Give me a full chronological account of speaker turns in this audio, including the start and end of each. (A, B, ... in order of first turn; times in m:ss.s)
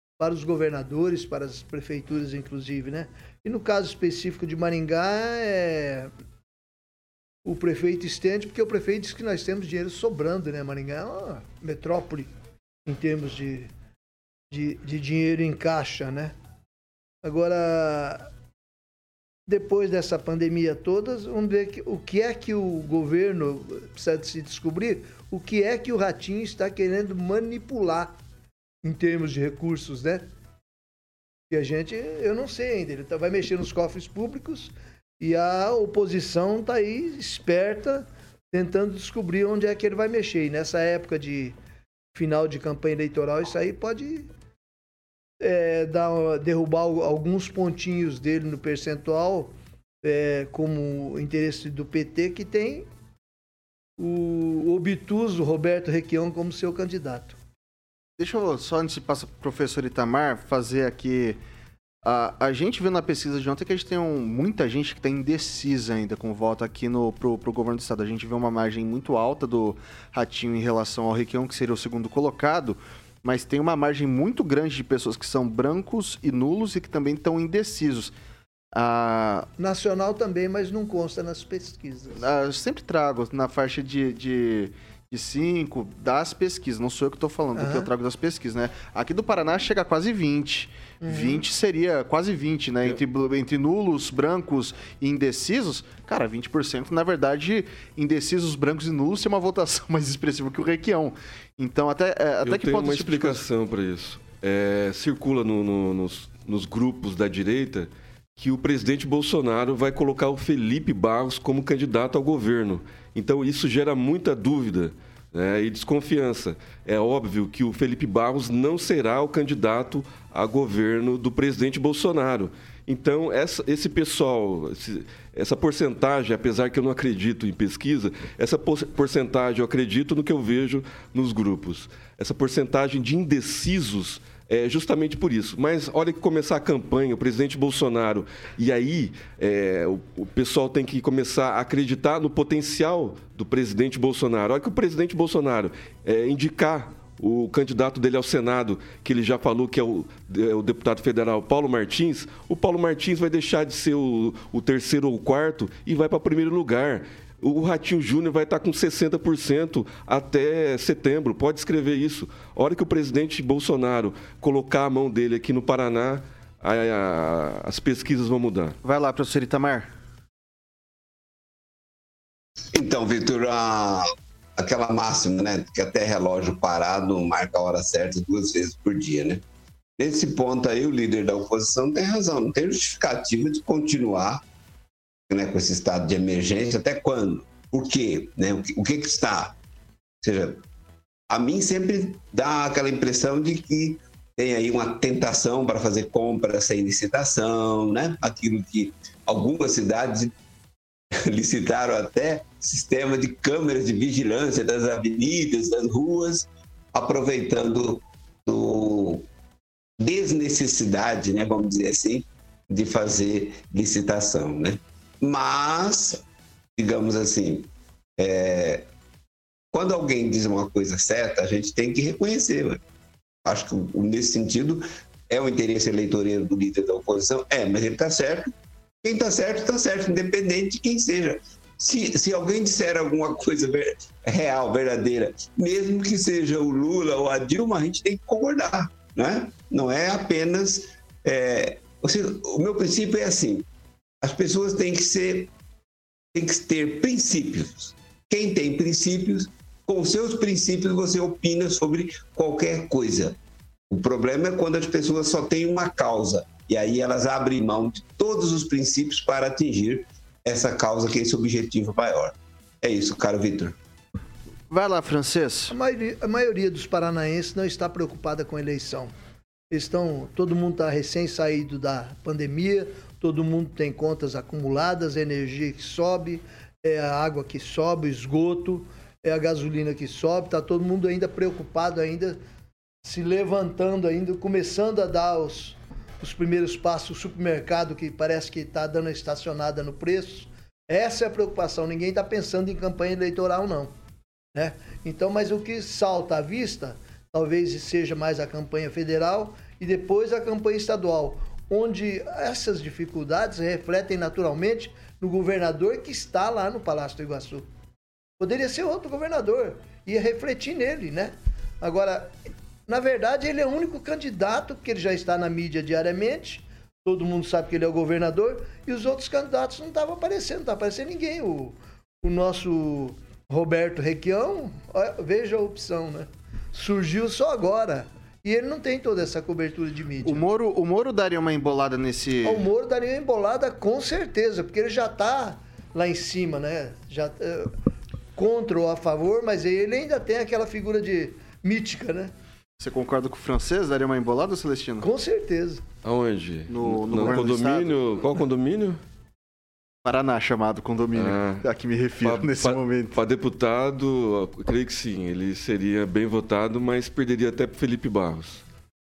0:00.2-0:06.1 A
0:07.4-0:12.3 A
0:12.9-0:13.7 A
0:14.5-0:16.4 A
0:17.2-0:18.3 A
0:19.5-0:28.1 A
0:28.8-0:30.3 A
0:31.5-0:41.6 A
0:42.1-0:44.3 A
0:45.4-0:52.9 A
0:54.0-0:57.4 A
0:58.2-1:01.4 B
1:02.0-1:18.2 B
1:18.7-1:19.5 B
1:19.6-1:22.3 A
1:22.2-1:43.4 B
1:27.6-1:27.9 A
1:31.0-1:31.4 A
1:42.4-2:48.8 C
2:48.8-2:49.9 B
2:52.7-2:59.4 D
3:00.0-3:04.4 D
3:05.3-3:09.6 D
3:10.2-3:10.6 D
3:11.3-3:20.3 D
3:21.2-3:29.3 D
3:30.0-3:36.2 D
3:36.8-3:38.9 D
3:39.7-3:42.8 D
3:43.4-3:48.5 D
3:49.0-4:03.7 D
4:04.2-4:05.5 D
4:06.3-4:13.4 D
4:13.9-4:23.8 D
4:24.7-4:25.7 B
4:25.7-4:29.1 A
4:29.7-4:42.4 A
4:43.0-4:53.9 A
4:54.6-5:07.7 A
5:08.4-5:12.3 A
5:12.9-5:30.5 A
5:30.2-5:32.7 B
5:32.4-5:37.7 A
5:38.4-5:42.3 A
5:42.8-5:45.1 B
5:45.0-5:45.8 A
5:46.0-5:49.0 C
5:46.7-5:48.2 B
5:50.0-5:53.2 B
5:51.1-5:51.7 C
5:52.2-5:58.6 C